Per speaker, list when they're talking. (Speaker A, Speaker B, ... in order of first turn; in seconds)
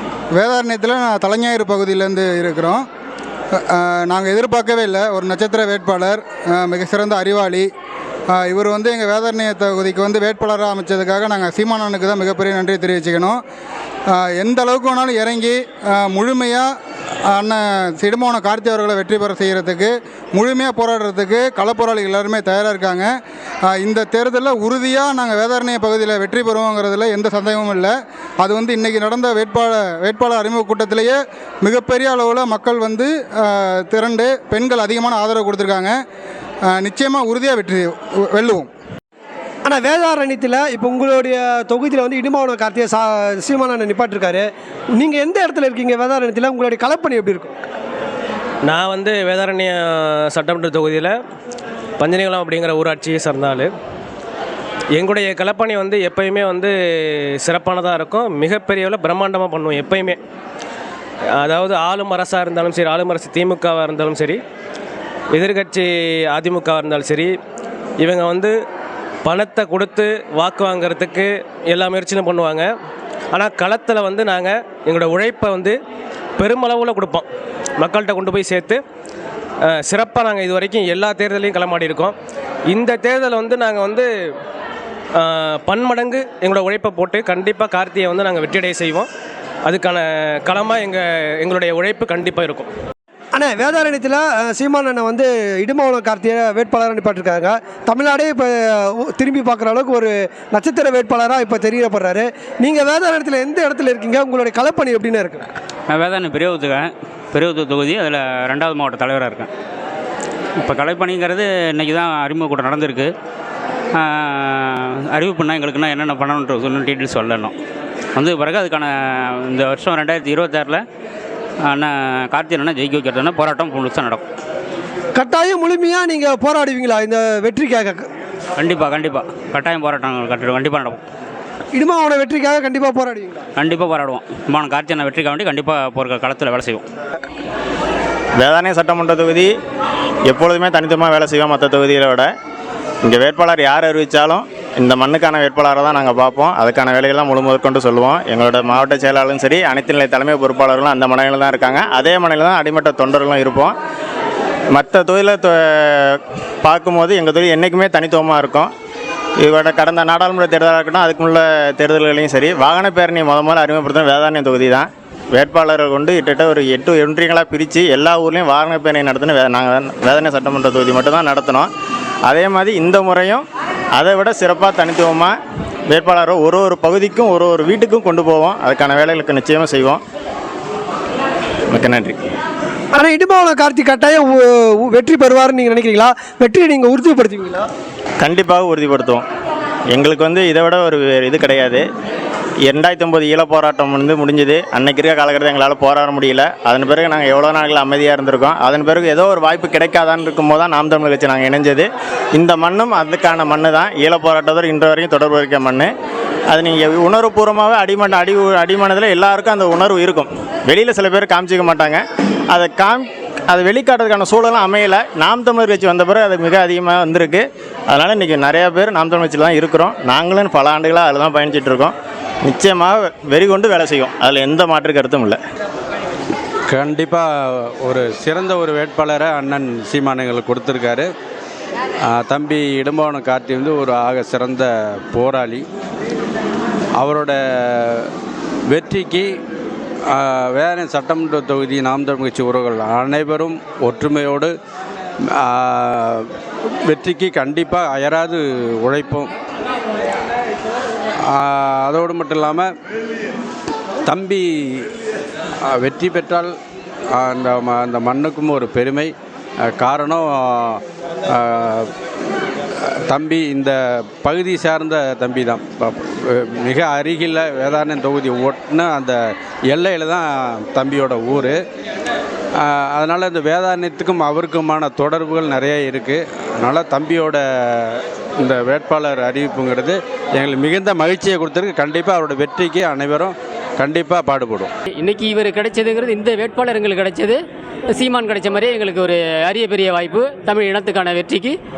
Speaker A: 0.3-2.9, 3.6-7.7, 8.3-13.4, 14.1-16.7, 17.3-23.1, 23.7-35.9, 36.7-38.7
Speaker B: 39.6-47.5, 93.3-105.4, 125.2-128.1, 131.7-133.4, 182.9-187.7
Speaker C: 48.7-51.2, 52.0-53.7, 55.0-60.2, 61.4-64.4, 65.3-67.3, 68.0-68.5, 69.2-72.7, 73.3-75.8, 76.4-77.3, 77.8-78.8, 79.7-82.2, 82.7-84.1, 85.2-89.1, 89.7-92.7
Speaker D: 105.9-109.5, 110.6-113.1, 113.9-117.5, 118.2-120.8, 121.6-124.2, 128.6-131.0, 133.6-136.9
Speaker E: 138.4-139.5, 140.3-142.3, 143.0-153.8, 154.7-158.7, 159.4-171.7, 172.3-175.3, 175.9-180.0, 181.7-182.2, 188.2-189.2, 189.9-191.8, 192.7-205.9, 206.5-225.4
Speaker F: 226.7-231.1, 232.1-235.7, 237.0-238.1, 238.7-239.3, 240.1-244.5, 245.4-246.3, 246.9-249.3, 251.3-252.7, 254.1-254.9, 255.7-256.6, 257.1-259.1, 259.7-261.9, 262.8-271.6, 272.6-284.7
Speaker G: 285.0-287.3, 288.0-291.5